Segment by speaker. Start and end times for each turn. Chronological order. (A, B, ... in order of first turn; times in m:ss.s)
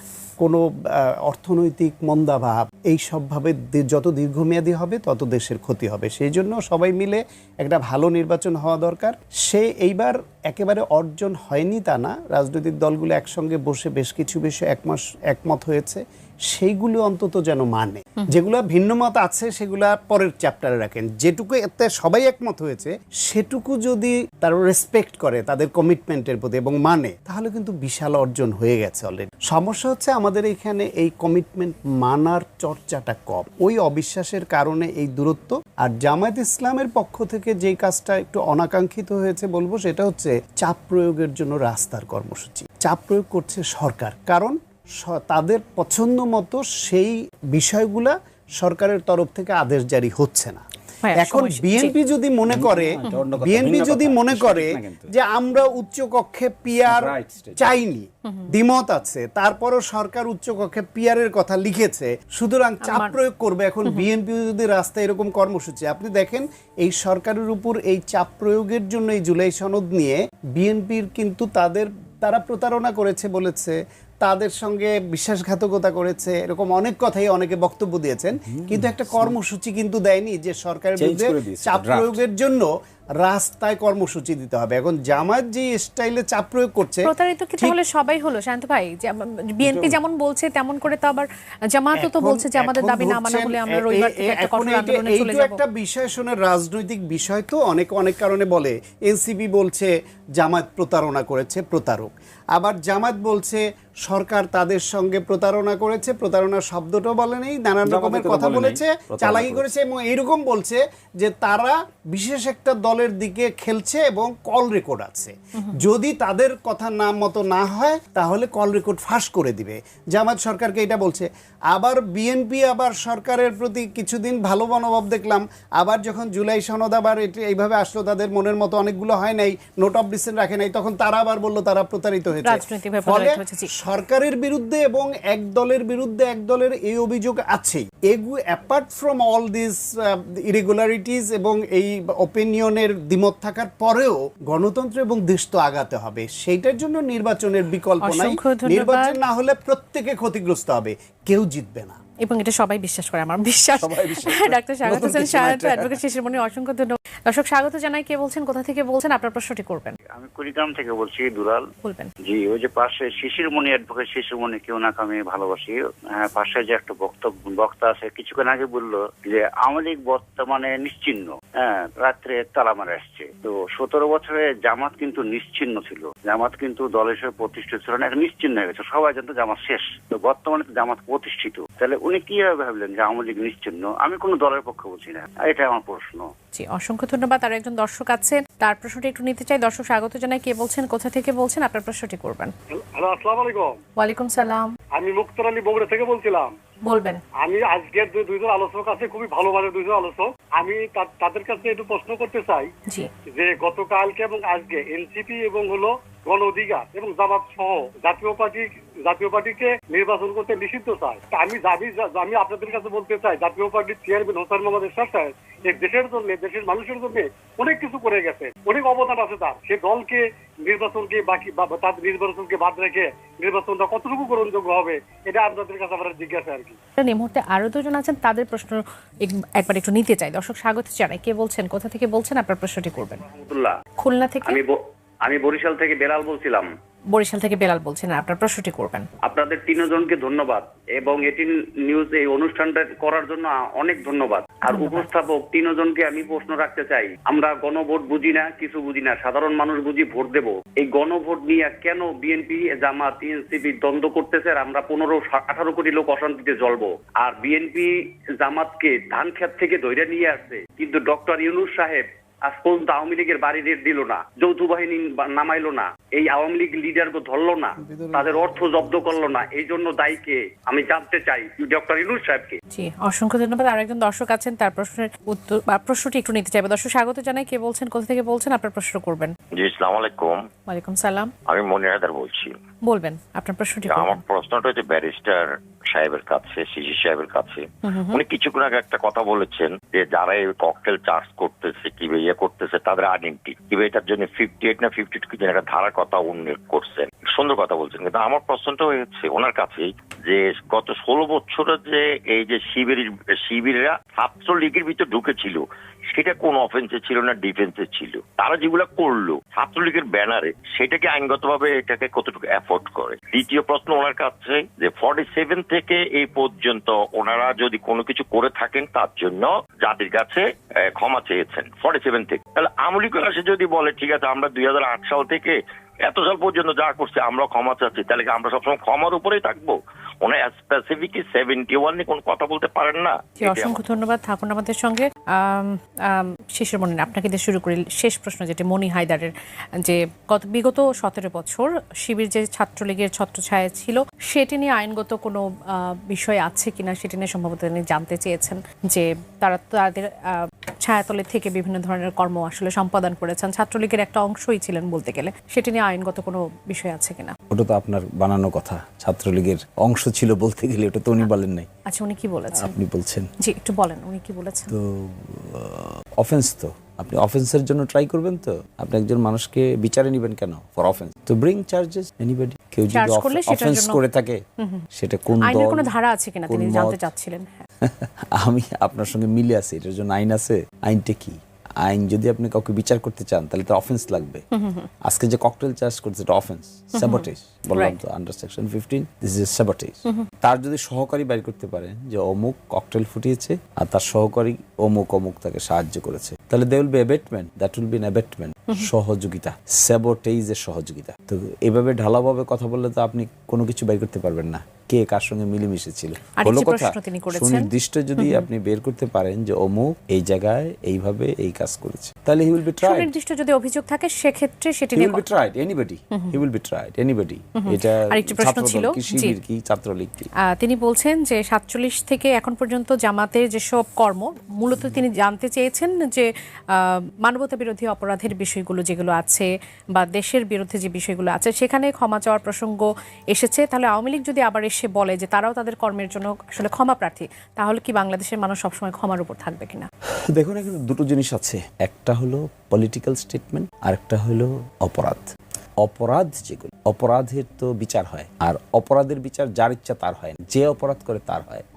0:00.4-0:50.6 A
0:51.0-0:51.9 B
0:51.2-1:22.7 A
0:52.5-0:55.1 C
0:56.9-0:57.8 C
1:02.8-1:03.1 B
1:18.5-1:19.4 C
1:21.0-1:22.2 C
1:23.2-1:27.8 A
1:27.0-1:35.6 B
1:29.6-1:30.0 C
1:32.0-2:32.0 A
1:47.8-1:49.6 C
2:12.4-2:13.7 B
2:28.0-2:29.2 B
2:32.2-2:40.0 B
2:33.8-2:36.0 C
2:40.1-2:41.6 D
2:41.8-2:42.1 B
2:42.3-3:06.3 D
3:06.6-3:12.5 B
3:12.7-3:13.8 E
3:14.0-3:14.7 B
3:15.0-3:16.5 E
3:16.8-3:17.2 B
3:17.4-3:22.7 E
3:23.3-3:46.8 E
3:47.0-3:53.2 B
3:53.2-3:53.7 F
3:54.0-3:54.6 B
3:54.4-3:56.7 F
3:57.1-3:59.1 B
3:59.2-4:17.9 F
4:04.7-4:05.1 B
4:18.4-4:32.6 F
4:27.8-4:29.2 A
4:32.7-4:39.4 B
4:39.5-4:40.4 G
4:40.7-4:41.3 B
4:41.5-4:42.6 G
4:42.8-4:44.2 B
4:43.9-5:05.6 G
4:47.9-4:48.2 B
5:06.1-5:33.8 G
5:33.4-5:39.3 B
5:39.8-5:57.4 B
5:57.5-6:01.7 C
6:01.9-6:02.7 B
6:02.6-6:03.3 C
6:03.4-6:04.7 B
6:04.7-6:14.4 C
6:12.9-6:14.0 B
6:14.6-6:14.8 B
6:14.9-6:15.9 C
6:15.4-6:17.6 B
6:16.5-6:17.1 C
6:17.8-6:24.4 C
6:24.5-6:24.9 B
6:25.0-6:53.1 C
6:27.0-6:28.0 B
6:46.4-6:48.5 B
6:52.8-6:55.2 B
6:55.0-7:00.3 C
6:57.6-6:59.4 B
7:00.5-7:19.9 B
7:20.3-7:25.3 C
7:25.8-7:31.6 C